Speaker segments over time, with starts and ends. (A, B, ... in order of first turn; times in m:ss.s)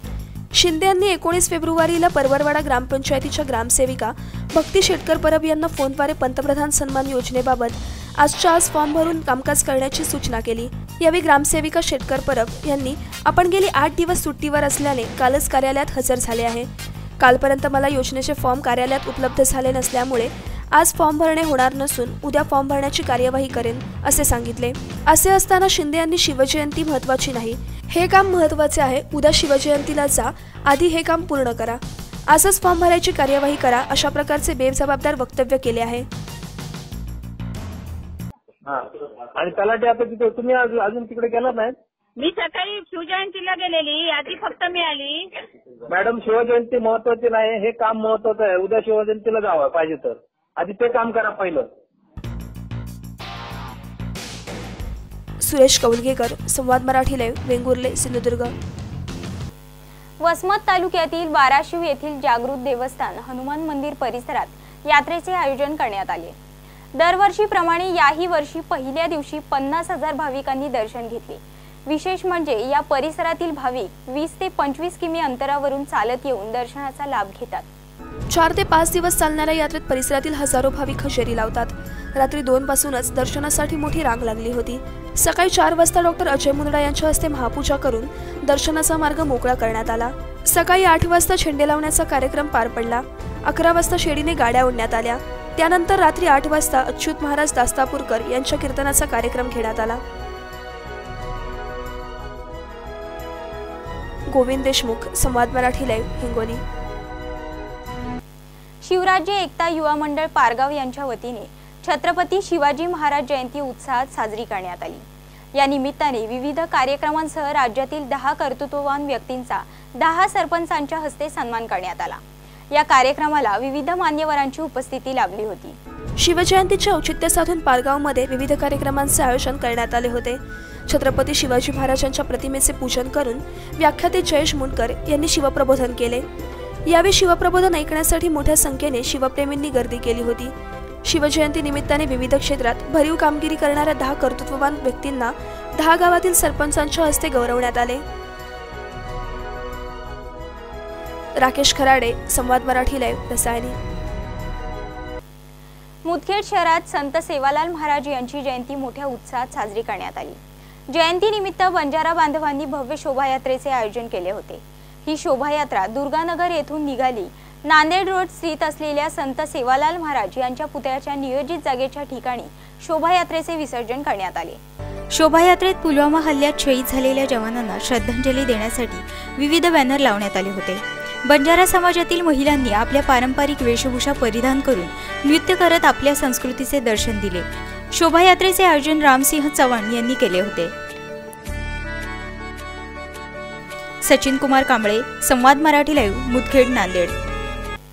0:00.6-0:36.1 A
0:38.6-0:41.8 B
0:42.2-0:45.3 C
0:45.9-0:51.7 B
0:55.4-0:58.5 A
1:00.2-1:06.3 D
1:07.0-1:17.7 D
1:18.3-1:40.0 A
1:44.3-1:46.6 A
1:48.8-1:55.0 D
1:55.6-2:02.2 D
2:02.7-2:05.8 D
2:06.2-2:16.3 A
2:16.9-2:28.0 A
2:31.4-2:33.8 A
2:36.0-2:54.6 D
2:55.1-3:10.7 E
3:14.0-3:17.2 E